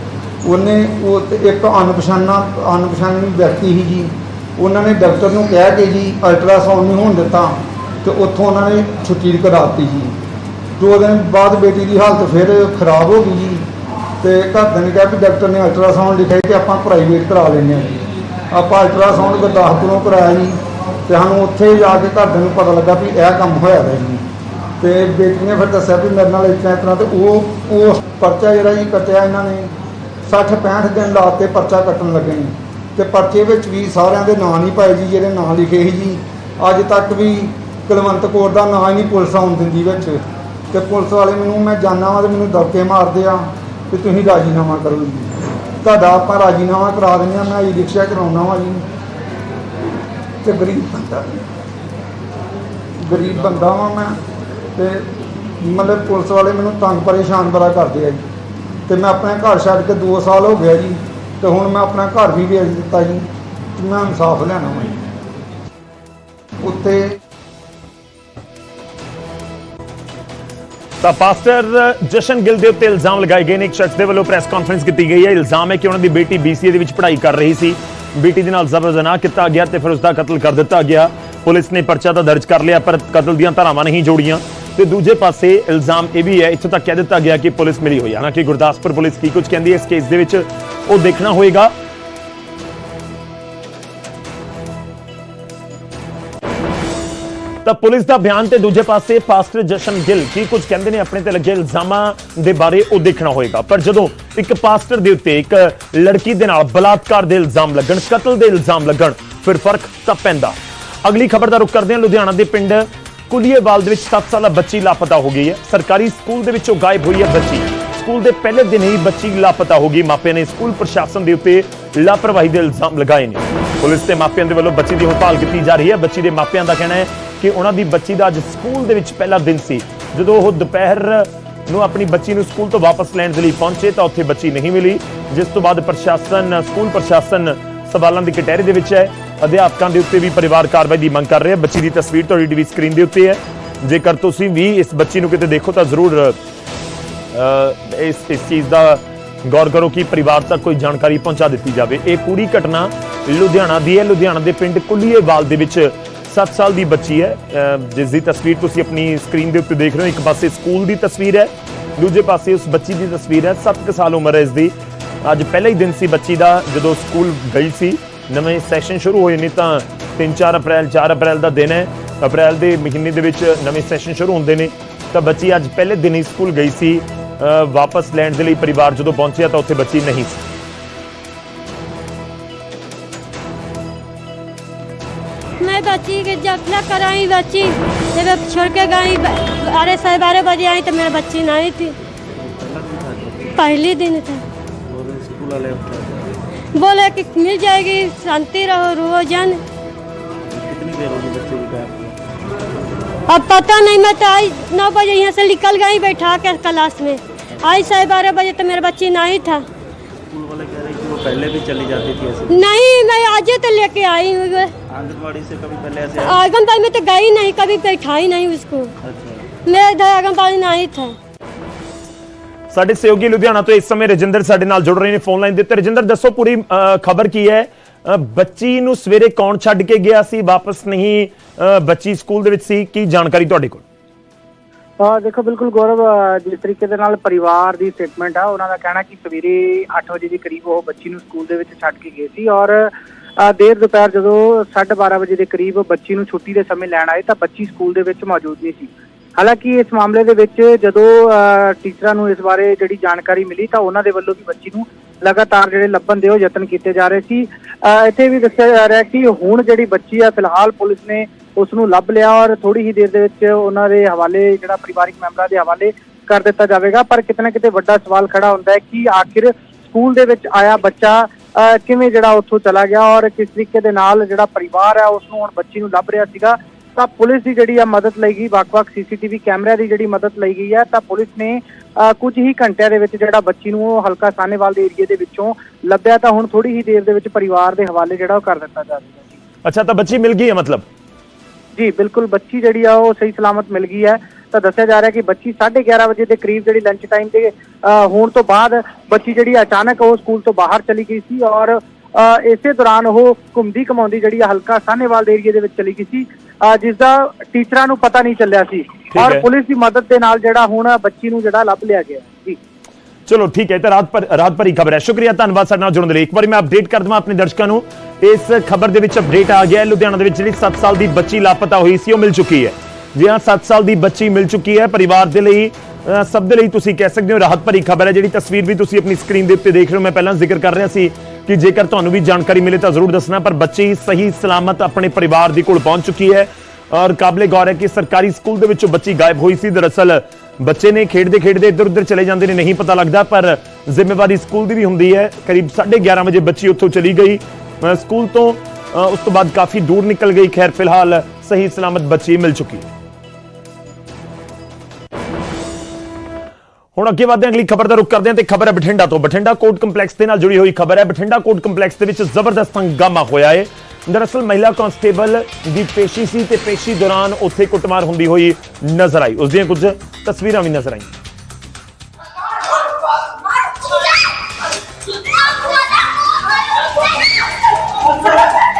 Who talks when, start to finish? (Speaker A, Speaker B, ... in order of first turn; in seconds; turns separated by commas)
Speaker A: 0.4-10.2, Speaker A: 10.8-13.7, Speaker A: 14.2-24.2, Speaker A: 24.8-29.7, Speaker A: 30.2-48.8, Speaker A: 50.4-51.4, Speaker A: 53.0-54.2, Speaker A: 54.7-58.3, Speaker A: 58.9-65.0, Speaker A: 66.6-67.2, Speaker B: 71.0-91.7, Speaker B: 97.6-146.4, Speaker B: 147.3-180.4, Speaker C: 185.6-191.9, Speaker D: 192.4-193.5, Speaker C: 193.6-194.4, Speaker D: 194.9-196.3, Speaker C: 196.7-199.6, Speaker D: 200.5-202.2, Speaker C: 203.3-209.6, Speaker D: 210.3-212.6, Speaker C: 212.5-214.7, Speaker D: 214.9-216.4, Speaker C: 216.2-218.9, Speaker D: 219.0-219.4, Speaker C: 219.7-221.1, Speaker B: 222.7-233.8, Speaker E: 235.0-289.4, Speaker B: 289.6-290.9, Speaker E: 291.8-312.6, Speaker B: 309.1-309.4, Speaker B: 313.3-352.9, Speaker B: 356.9-371.1